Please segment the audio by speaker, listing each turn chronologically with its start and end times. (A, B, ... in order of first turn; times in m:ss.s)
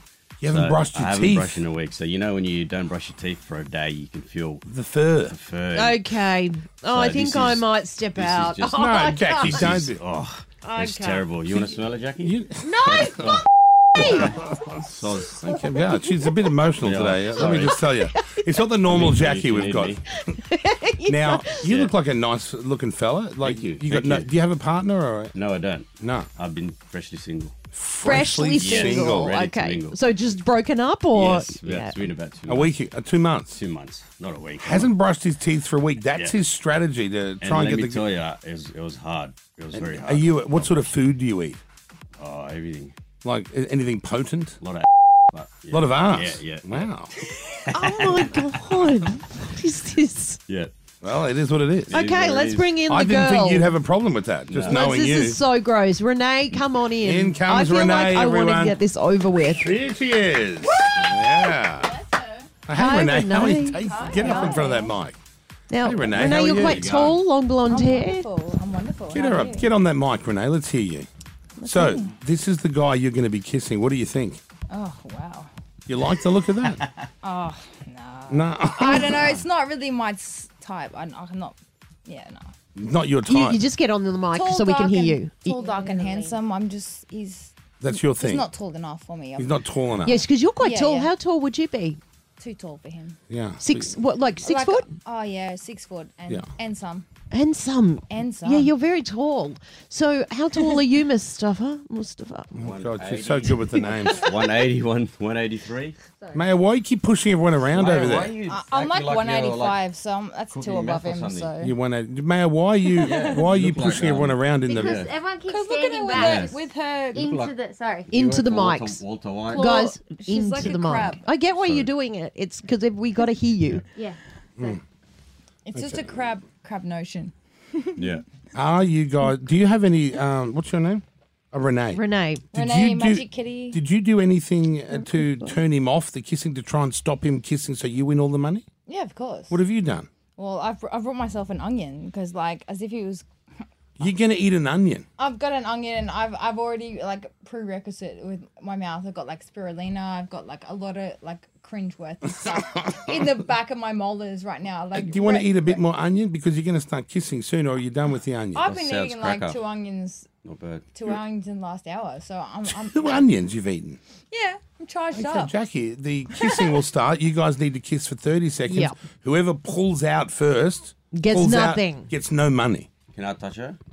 0:00.4-0:01.6 A
0:00.5-0:04.6 B
0:04.6-0:05.4 A
0:05.3-0:06.0 B
0:05.7-0:09.7 C
0:06.9-0:08.8 B
0:08.7-0:10.0 A
0:09.4-0:13.4 B
0:10.6-0:11.3 C
0:11.5-0:13.0 A
0:12.6-0:13.3 C
0:13.9-0:14.4 C
0:14.0-0:14.3 B
0:14.0-0:14.8 A
0:14.9-0:15.4 B
0:15.4-0:20.4 A
0:16.8-0:17.8 B
0:18.1-0:18.4 C
0:18.9-0:20.0 B
0:20.3-0:21.6 C
0:21.0-0:25.4 A
0:21.6-0:21.9 B
0:23.4-0:24.3 B
0:25.3-0:27.5 B
0:26.0-0:26.3 A
0:27.7-0:29.4 A
0:28.0-0:32.0 C
0:28.6-0:30.1 B
0:31.1-0:32.7 B
0:32.5-0:33.6 A
0:33.5-0:34.9 B
0:34.6-0:38.1 A
0:37.4-0:40.9 B
0:39.7-0:41.6 A
0:42.2-0:42.9 B
0:43.2-0:44.6 A
0:44.6-0:46.9 B
0:45.7-0:47.1 A
0:47.7-0:50.4 C
0:47.7-0:48.8 B
0:51.0-0:52.0 A
0:51.9-0:53.8 C
0:51.9-0:52.8 B
0:52.8-0:55.4 A
0:54.5-0:54.8 B
0:54.7-0:59.8 C
0:57.0-0:58.8 A
0:59.4-1:01.9 A
1:02.6-1:05.2 A
1:02.7-1:04.0 C
1:03.9-1:04.9 D
1:05.7-1:08.3 C
1:05.8-1:07.1 A
1:06.3-1:07.2 B
1:07.7-1:09.7 D
1:09.1-1:11.1 A
1:11.6-1:12.1 D
1:11.6-1:14.4 A
1:14.7-1:15.5 D
1:15.9-1:16.8 A
1:17.2-1:22.5 D
1:18.3-1:19.4 A
1:22.7-1:23.6 A
1:23.2-1:25.6 C
1:24.3-1:29.6 D
1:25.5-1:26.4 E
1:27.8-1:28.5 A
1:29.4-1:30.3 A
1:30.0-1:32.0 C
1:30.6-1:31.1 D
1:32.4-1:33.2 D
1:33.3-1:33.9 A
1:33.6-1:34.9 C
1:34.4-1:37.0 D
1:37.3-1:42.5 C
1:38.1-1:38.7 D
1:42.5-1:44.3 A
1:42.6-1:46.0 B
1:46.2-1:46.4 E
1:46.3-1:48.3 A
1:47.7-1:49.8 B
1:48.5-1:51.7 D
1:50.5-1:51.5 B
1:51.6-1:55.1 A
1:53.0-1:53.4 D
1:53.0-1:55.1 B
1:54.6-1:58.1 E
1:55.5-1:57.3 D
1:56.2-1:56.6 B
1:57.1-1:59.7 B
1:58.1-2:03.9 C
1:59.5-2:01.2 D
2:01.6-2:01.9 B
2:05.6-2:08.1 D
2:05.7-2:06.1 A
2:08.0-2:08.2 B
2:08.5-2:12.0 A
2:11.9-2:12.4 C
2:12.5-2:18.6 A
2:12.5-2:13.8 D
2:18.9-2:19.6 D
2:19.5-2:20.1 A
2:20.4-2:23.2 D
2:24.0-2:25.1 A
2:25.2-2:35.8 D
2:34.9-2:38.7 A
2:38.5-2:40.3 D
2:38.7-2:39.6 B
2:40.4-2:40.9 B
2:40.9-2:43.3 D
2:42.7-2:44.0 A
2:44.3-2:45.5 D
2:45.1-2:52.9 A
2:46.3-2:46.6 D
2:48.7-2:48.9 C
2:51.1-2:52.1 C
2:53.1-2:53.8 B